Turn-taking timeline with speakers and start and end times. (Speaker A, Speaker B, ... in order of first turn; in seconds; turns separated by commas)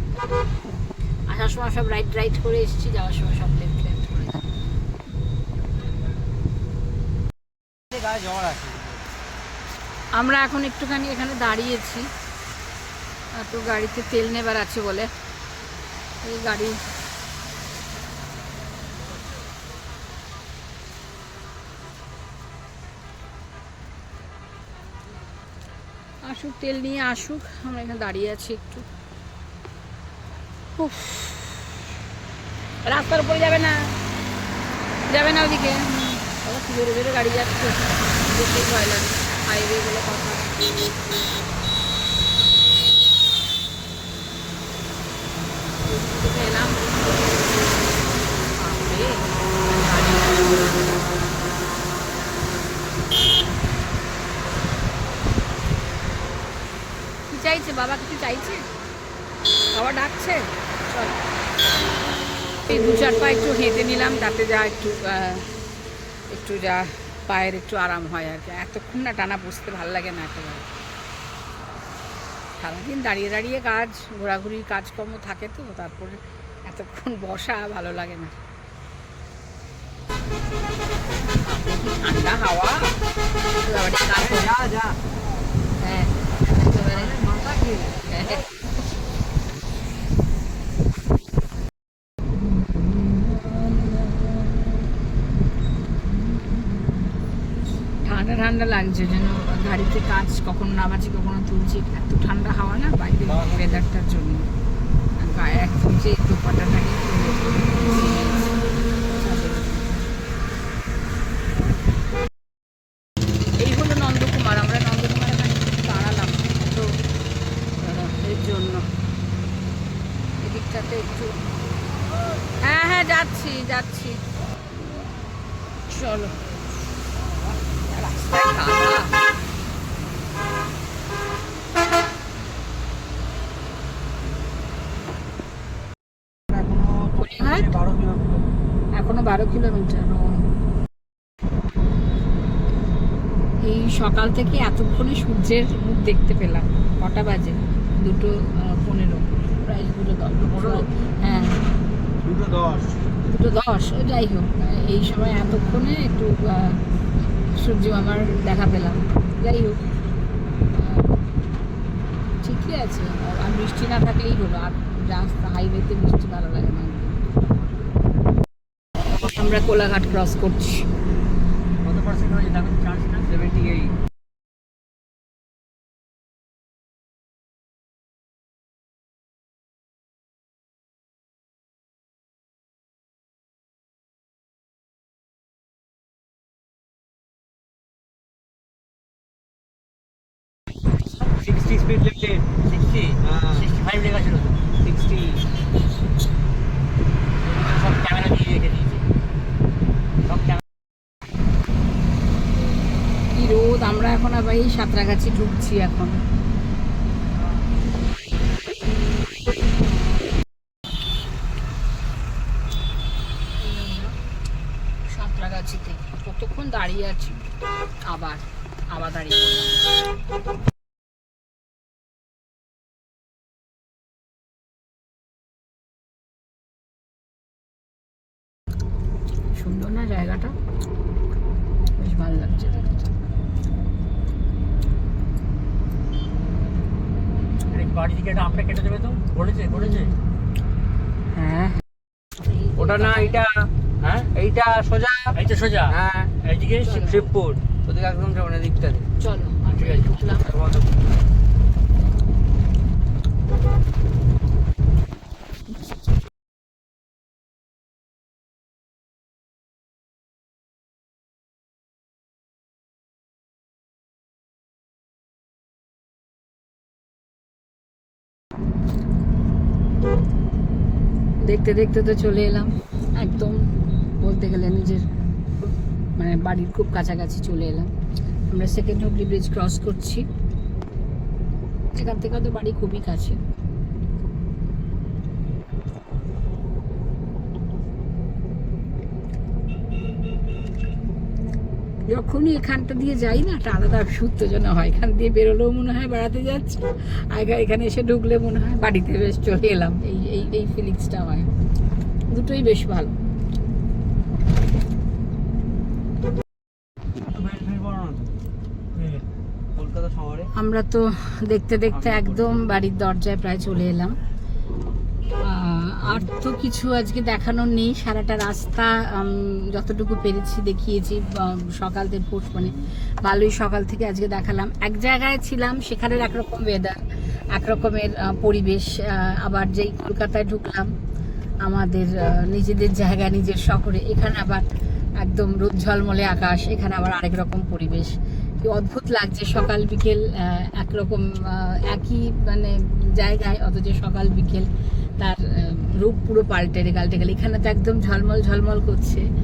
Speaker A: 1.3-4.5, Speaker B: 7.9-9.1, Speaker A: 10.1-12.1, Speaker A: 13.3-15.1, Speaker A: 16.2-16.8, Speaker A: 26.2-28.9, Speaker A: 30.8-31.6, Speaker A: 32.8-33.9, Speaker A: 35.1-41.2, Speaker A: 45.8-47.2, Speaker A: 48.5-51.0, Speaker A: 57.3-58.6, Speaker A: 59.7-61.2, Speaker A: 62.7-65.5, Speaker A: 66.3-70.7, Speaker A: 72.6-78.3, Speaker A: 81.2-83.0, Speaker A: 83.6-84.5, Speaker B: 84.1-85.0, Speaker A: 85.8-87.2, Speaker B: 86.7-88.4, Speaker A: 88.1-88.5, Speaker A: 92.5-94.5, Speaker A: 98.0-104.5, Speaker B: 103.2-103.7, Speaker A: 105.2-110.1, Speaker A: 113.6-116.9, Speaker A: 117.8-118.8, Speaker A: 120.4-121.3, Speaker A: 122.6-124.2, Speaker A: 125.9-126.3, Speaker A: 127.9-129.2, Speaker B: 136.5-138.4, Speaker A: 137.2-137.7, Speaker A: 139.0-140.3, Speaker A: 143.6-151.6, Speaker C: 150.5-150.8, Speaker B: 152.2-153.0, Speaker A: 153.3-156.8, Speaker A: 157.5-159.8, Speaker A: 160.7-161.1, Speaker A: 162.4-167.2, Speaker B: 167.4-167.9, Speaker A: 169.2-170.9, Speaker C: 171.8-173.3, Speaker B: 173.3-173.9, Speaker B: 191.2-193.7, Speaker C: 193.5-194.6, Speaker B: 194.8-195.4, Speaker C: 197.4-199.1, Speaker C: 200.2-200.6, Speaker A: 203.3-206.2, Speaker A: 207.3-207.7, Speaker A: 213.6-214.2, Speaker A: 215.1-217.4, Speaker A: 218.1-220.0, Speaker A: 229.5-230.5, Speaker A: 231.9-233.1, Speaker C: 237.7-240.1, Speaker A: 241.3-241.8, Speaker A: 242.4-243.4, Speaker B: 242.8-243.7, Speaker C: 244.0-244.3, Speaker B: 244.3-245.4, Speaker C: 245.3-247.1, Speaker B: 245.9-249.1, Speaker A: 246.8-247.3, Speaker A: 249.2-250.5, Speaker C: 249.6-250.4, Speaker B: 250.4-251.0, Speaker A: 271.4-275.1, Speaker A: 275.6-277.9, Speaker A: 278.5-280.3, Speaker A: 281.9-283.4, Speaker A: 292.1-301.5, Speaker A: 302.3-303.1, Speaker B: 307.1-308.3, Speaker C: 308.9-309.2, Speaker B: 309.7-310.5, Speaker A: 310.5-314.1, Speaker B: 311.9-312.8, Speaker A: 315.4-330.9, Speaker A: 331.6-334.6, Speaker A: 335.2-349.2